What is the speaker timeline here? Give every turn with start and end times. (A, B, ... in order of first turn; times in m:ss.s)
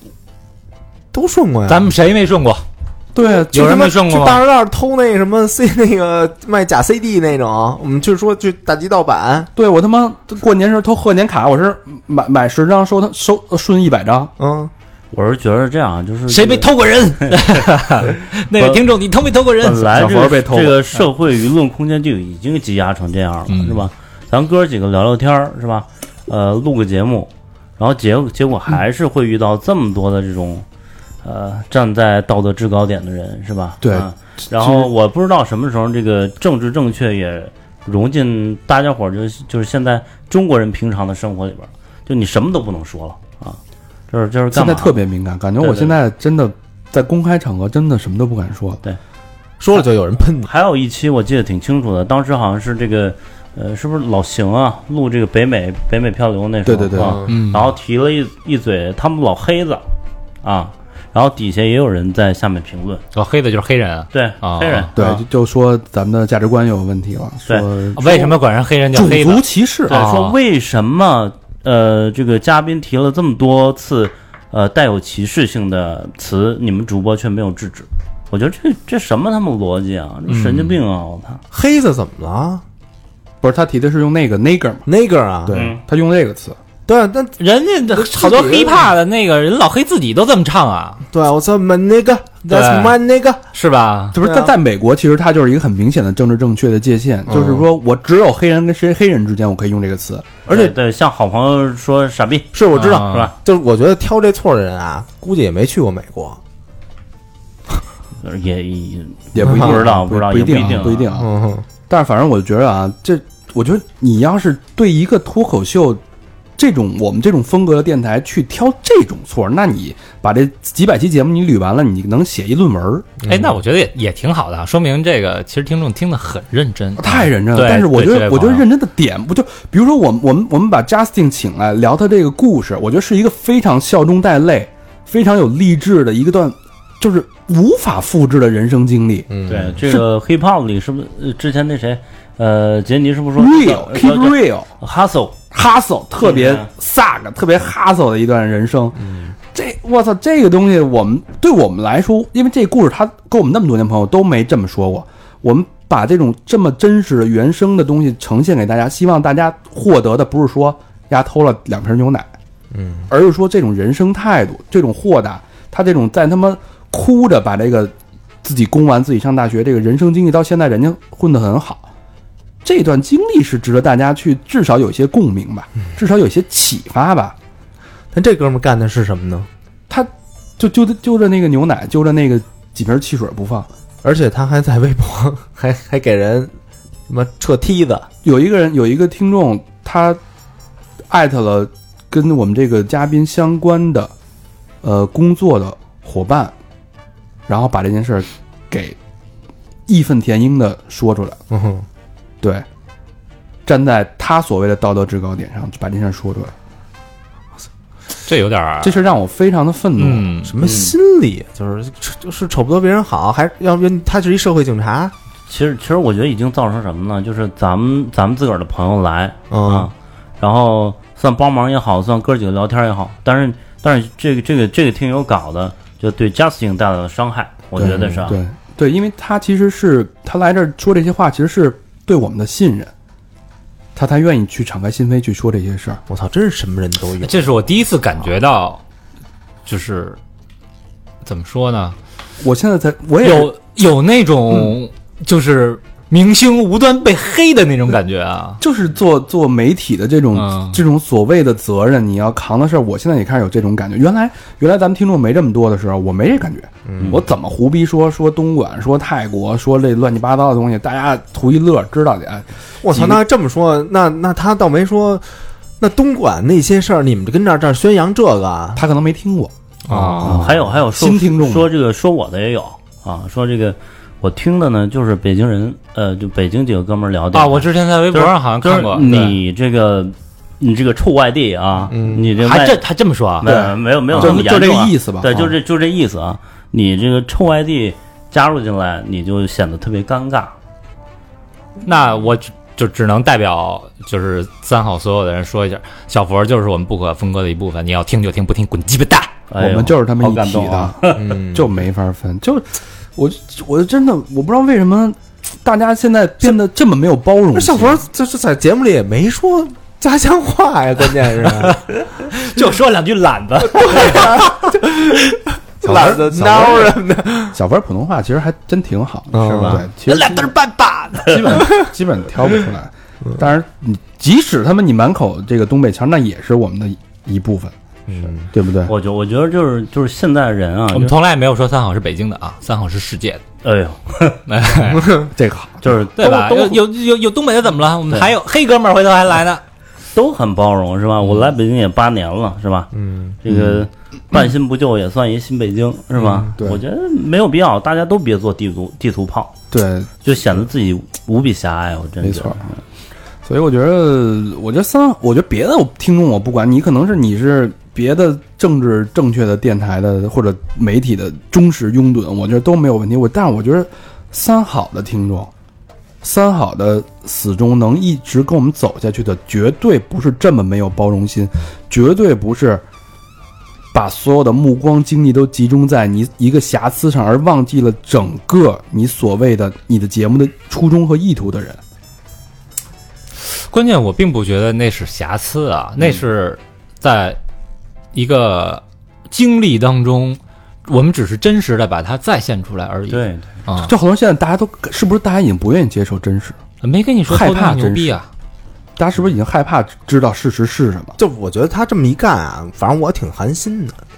0:01.1-0:01.9 A
0:01.7-0:02.6 B
0:03.1-0:03.8 C
0:03.4-0:09.5 A
0:03.5-0:04.4 B
0:09.6-0:14.3 C
0:14.4-0:14.7 A
0:15.1-0:16.7 D
0:16.3-0:20.3 B
0:17.2-0:17.6 D
0:18.5-0:18.8 D
0:19.6-0:30.6 D
0:19.9-0:21.0 C
0:23.5-0:23.8 B
0:31.2-0:43.6 D
0:33.8-0:34.9 C
0:44.1-0:45.0 D
0:44.5-0:48.8 C
0:45.6-0:46.0 D
0:49.6-0:50.5 A
0:50.4-0:59.8 D
0:56.6-0:57.2 C
0:57.0-0:57.3 A
0:57.3-0:57.7 B
1:00.4-1:03.0 D
1:03.1-1:04.9 B
1:04.1-1:05.2 D
1:05.0-1:08.4 C
1:08.0-1:10.4 B
1:08.9-1:10.0 C
1:09.9-1:21.4 D
1:20.3-1:20.8 B
1:21.5-1:22.6 A
1:23.4-1:24.8 C
1:24.9-1:25.6 A
1:25.5-1:26.6 C
1:25.5-1:25.8 D
1:26.9-1:27.4 A
1:27.4-1:31.0 B
1:27.9-1:28.9 A
1:31.1-1:33.4 A
1:32.5-1:33.0 B
1:33.5-1:34.2 B
1:34.1-1:40.3 C
1:34.2-1:34.5 A
1:37.3-1:37.7 A
1:40.5-1:43.3 D
1:40.5-1:40.7 A
1:42.5-1:46.4 A
1:42.7-1:43.3 B
1:48.2-1:51.1 D
1:49.3-1:51.3 C
1:51.1-1:51.6 A
1:51.9-1:56.0 C
1:56.6-2:03.1 C
2:03.2-2:03.6 A
2:03.3-2:08.7 B
2:07.0-2:19.3 C
2:19.3-2:19.8 A
2:19.5-2:25.4 D
2:23.4-2:24.7 C
2:25.5-2:42.3 C
2:26.2-2:26.7 D
2:29.0-2:29.3 A
2:42.7-2:43.1 A
2:43.1-2:51.9 C
2:52.6-2:57.4 C
2:58.1-2:59.5 A
2:59.9-3:03.7 C
3:04.0-3:06.5 A
3:07.1-3:08.1 A
3:08.2-3:10.2 C
3:11.1-3:14.1 C
3:14.8-3:16.5 C
3:17.5-3:19.0 C
3:19.9-3:21.4 C
3:21.5-3:21.9 A
3:23.7-3:26.6 C
3:28.3-3:29.0 B
3:28.8-3:30.3 C
3:30.0-3:30.5 B
3:30.4-3:35.1 A
3:30.6-3:31.0 D
3:35.5-3:48.4 D
3:39.5-3:39.9 A
3:47.8-3:52.9 C
3:54.0-3:56.0 C
3:56.1-3:57.4 A
3:57.2-3:58.8 B
3:59.7-4:00.2 B
4:01.2-4:02.0 B
4:02.4-4:03.5 C
4:03.2-4:08.6 B
4:08.6-4:23.2 C
4:10.3-4:10.8 B
4:16.9-4:17.2 A
4:22.8-4:25.2 A
4:25.8-4:28.8 A
4:28.8-4:29.5 C
4:29.9-4:30.6 B
4:30.2-4:31.7 C
4:30.2-4:42.8 D
4:37.3-4:39.4 B
4:41.9-4:42.3 A
4:42.4-4:43.5 B
4:43.4-4:50.6 D
4:43.4-4:45.6 C
4:51.8-4:59.3 B
4:59.5-5:01.3 D
4:59.6-5:08.0 C
5:01.2-5:01.7 A
5:07.5-5:11.8 A
5:12.3-5:14.7 B
5:13.8-5:17.6 A
5:15.8-5:17.0 C
5:17.5-5:20.5 C
5:19.3-5:19.8 D
5:19.3-5:19.8 A
5:20.0-5:21.6 B
5:21.2-5:27.8 C
5:28.1-5:28.5 A
5:28.4-5:28.9 C
5:28.9-5:31.2 D
5:30.9-5:33.4 B
5:33.6-5:34.4 D
5:34.5-5:35.2 B
5:35.0-5:35.3 A
5:35.3-5:35.9 C
5:35.8-5:36.8 D
5:36.2-5:39.6 B
5:40.1-5:42.9 D
5:42.9-5:43.4 A
5:43.4-5:49.6 D
5:43.5-5:43.8 C
5:49.7-5:50.1 C
5:50.2-5:52.7 D
5:52.2-5:52.6 C
5:53.4-6:05.5 C
6:06.2-6:12.8 C
6:13.9-6:21.8 C
6:23.4-6:27.4 B
6:28.1-6:33.9 B
6:33.1-6:33.5 D
6:33.8-6:36.6 C
6:36.8-6:38.3 B
6:37.3-6:38.2 C
6:39.0-6:41.2 C
6:41.2-6:44.0 A